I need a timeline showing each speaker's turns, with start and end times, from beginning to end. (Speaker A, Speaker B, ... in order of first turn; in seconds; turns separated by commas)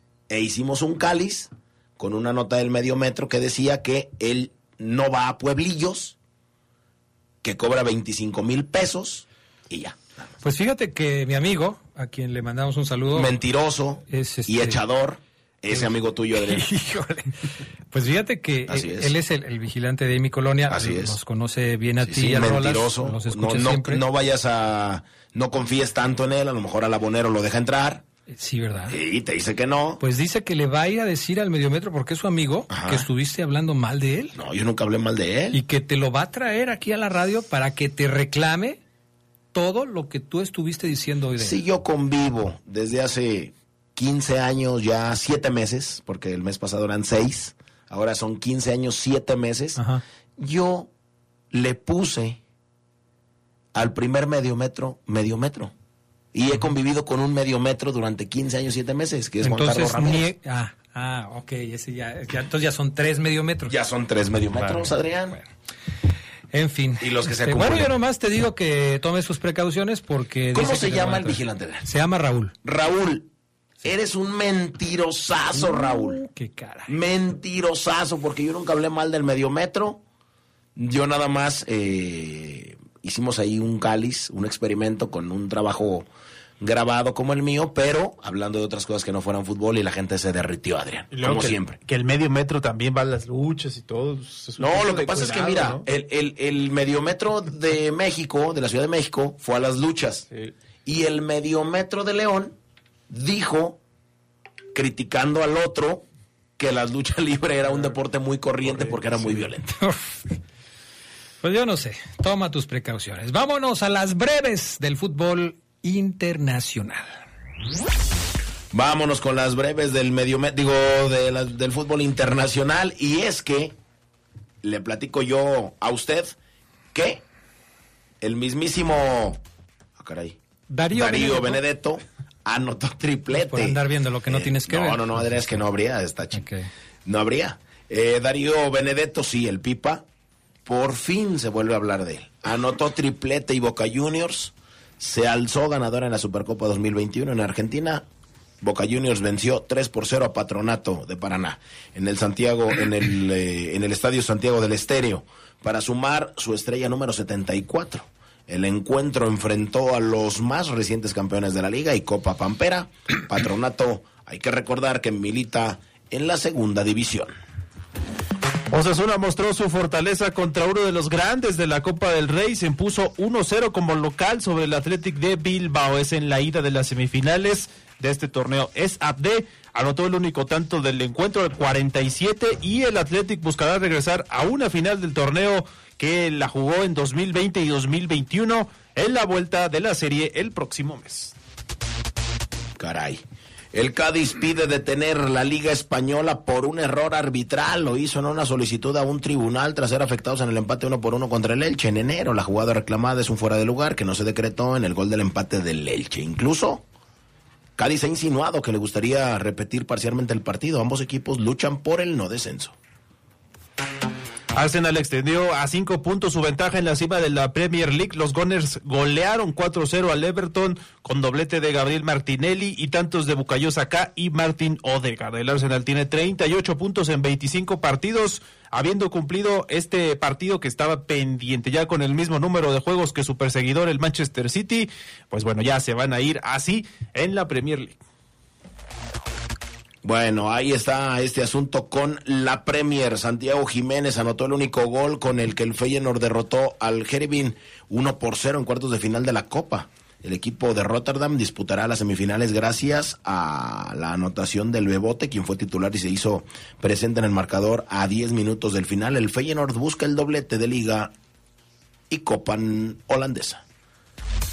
Speaker A: 0.3-6.2, Speaker A: 7.4-10.2, Speaker B: 10.4-13.3, Speaker A: 13.2-16.6, Speaker B: 14.1-14.8, Speaker B: 15.7-24.0, Speaker A: 18.7-19.1, Speaker A: 20.7-21.2, Speaker A: 22.0-28.0, Speaker B: 28.3-29.0, Speaker A: 28.9-30.0, Speaker B: 30.0-34.4, Speaker A: 32.7-33.1, Speaker A: 34.4-35.6, Speaker B: 35.5-38.8, Speaker B: 39.5-41.6, Speaker A: 41.4-49.8, Speaker B: 49.8-50.0, Speaker A: 50.4-50.9, Speaker A: 51.5-52.4, Speaker A: 53.7-55.7, Speaker A: 56.3-60.3, Speaker B: 59.4-63.8, Speaker A: 63.7-65.4, Speaker B: 64.6-65.5, Speaker B: 66.5-72.5, Speaker A: 67.0-68.0, Speaker A: 70.5-71.9, Speaker A: 72.6-73.3, Speaker A: 73.8-76.2, Speaker B: 75.5-77.0, Speaker A: 76.9-80.0, Speaker A: 80.8-86.1, Speaker A: 86.6-91.8, Speaker C: 91.1-95.9, Speaker A: 94.6-100.3, Speaker A: 100.8-102.6, Speaker A: 103.1-103.8, Speaker A: 104.7-106.0, Speaker A: 106.6-109.7, Speaker C: 107.7-107.9, Speaker C: 108.6-109.5, Speaker B: 109.8-110.3, Speaker B: 111.4-117.1, Speaker A: 118.7-123.8, Speaker A: 124.6-126.4, Speaker A: 126.9-127.2, Speaker A: 128.2-129.4, Speaker A: 130.0-130.4, Speaker B: 130.7-131.6, Speaker A: 130.9-136.4, Speaker B: 133.3-135.6, Speaker B: 136.3-136.7, Speaker A: 137.1-140.0, Speaker A: 140.7-148.1, Speaker A: 148.6-167.3, Speaker C: 168.7-191.3, Speaker A: 192.8-206.8, Speaker A: 207.8-212.8, Speaker C: 214.6-238.0, Speaker A: 240.0-261.1, Speaker A: 262.1-263.6